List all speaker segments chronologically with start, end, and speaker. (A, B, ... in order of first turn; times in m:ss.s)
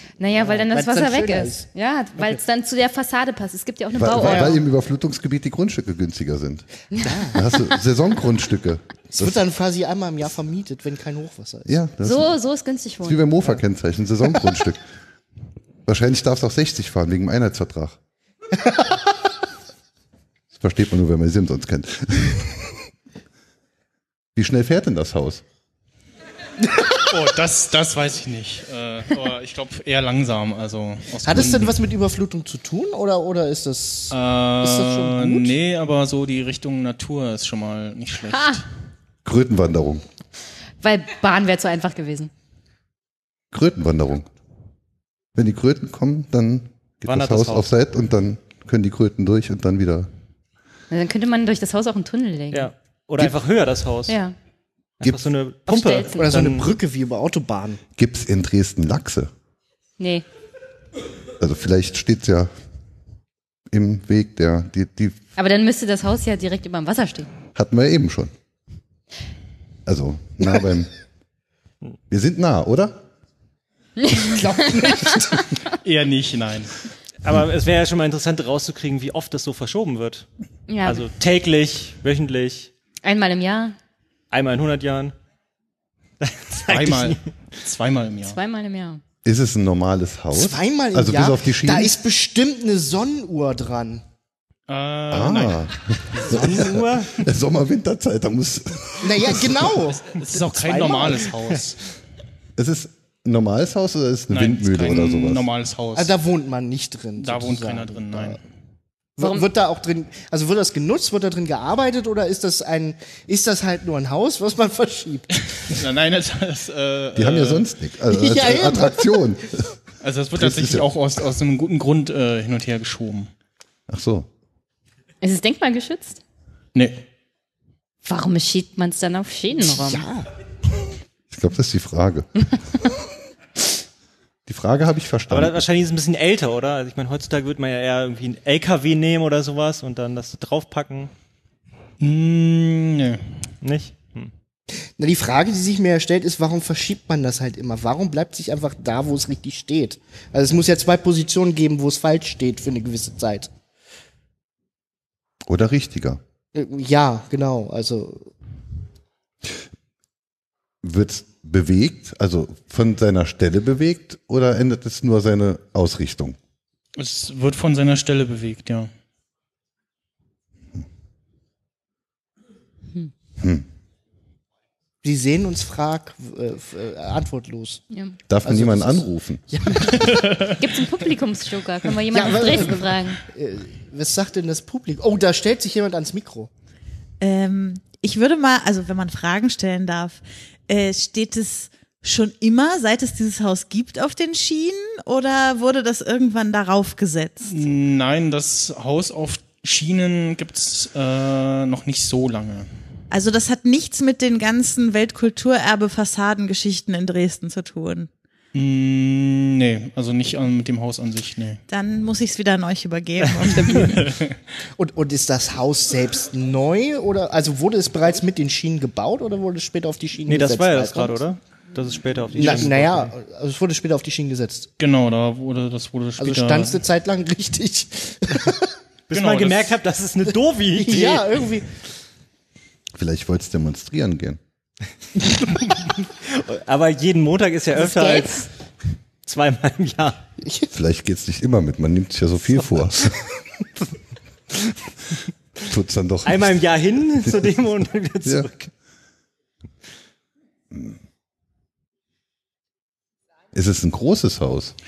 0:00.2-0:04.5 A
0:00.3-0:02.4 B
0:03.9-0:06.7 C
0:04.1-0:04.6 B
0:07.0-0:07.4 B
0:07.3-0:09.4 C
0:09.1-0:11.8 B
0:11.6-0:12.4 C
0:12.0-0:13.3 A
0:13.0-0:14.8 C
0:15.9-0:18.0 C
0:18.6-0:19.0 B
0:20.5-0:22.5 C
0:24.4-0:25.4 C
0:27.1-0:31.7 D
0:31.2-0:35.5 B
0:34.1-0:38.6 D
0:38.3-0:38.6 A
0:39.2-0:40.0 C
0:40.8-0:42.3 A
0:43.5-0:44.3 C
0:45.3-0:50.1 C
0:47.0-0:47.7 E
0:50.9-0:52.7 A
0:52.5-0:54.2 E
0:54.1-0:54.3 A
0:55.0-0:56.7 E
0:55.7-0:56.4 A
0:56.2-0:57.8 B
0:58.0-0:59.3 C
1:00.0-1:00.2 A
1:01.4-1:02.5 C
1:03.7-1:05.2 C
1:05.4-1:07.3 A
1:07.5-1:08.3 C
1:09.8-1:10.9 C
1:12.1-1:13.0 C
1:14.0-1:15.3 A
1:14.1-1:15.4 B
1:15.7-1:16.7 D
1:17.2-1:20.2 E
1:20.7-1:21.0 A
1:20.8-1:22.7 E
1:23.0-1:23.8 A
1:24.3-1:25.1 E
1:26.2-1:27.2 E
1:26.7-1:28.4 D
1:28.2-1:29.0 A
1:29.2-1:32.0 C
1:30.3-1:34.0 B
1:34.7-1:36.4 D
1:35.1-1:39.6 C
1:36.3-1:37.1 E
1:39.0-1:41.4 B
1:39.9-1:41.8 D
1:42.6-1:45.5 C
1:44.3-1:46.1 D
1:46.0-1:48.4 B
1:47.2-1:48.4 D
1:49.2-1:55.5 B
1:49.2-1:49.4 A
1:55.6-1:57.7 D
1:57.1-1:59.7 C
1:58.1-1:59.2 B
2:00.0-2:03.3 D
2:00.3-2:00.9 C
2:03.9-2:04.3 C
2:05.2-2:06.2 A
2:06.7-2:07.0 D
2:08.0-2:10.0 A
2:09.6-2:10.3 B
2:11.3-2:12.2 C
2:14.4-2:15.6 C
2:15.3-2:21.1 E
2:22.0-2:23.2 D
2:23.6-2:24.3 E
2:25.0-2:33.5 B
2:35.4-2:36.2 C
2:36.5-2:38.3 B
2:40.8-2:46.4 C
2:47.0-2:48.9 D
2:53.4-2:53.6 C
2:55.0-2:57.8 B
2:57.9-2:58.2 A
2:58.3-2:59.4 C
2:58.4-3:00.5 B
3:00.1-3:00.5 D
3:00.4-3:03.2 A
3:02.1-3:06.5 B
3:07.2-3:17.6 F
3:17.4-3:22.7 D
3:23.1-3:28.1 F
3:28.5-3:31.6 D
3:31.7-3:34.1 F
3:33.8-3:34.3 D
3:34.8-3:41.2 B
3:40.3-3:43.1 E
3:42.3-3:44.7 B
3:42.4-3:42.7 D
3:44.8-3:46.8 D
3:46.2-3:48.7 B
3:49.1-3:51.3 E
3:49.1-3:49.7 D
3:50.8-3:51.7 B
3:52.9-3:54.4 C
3:56.2-3:58.5 E
3:59.2-4:00.2 E
4:00.7-4:03.1 C
4:05.6-4:06.6 C
4:06.2-4:08.7 E
4:10.7-4:11.0 C
4:13.5-4:14.7 C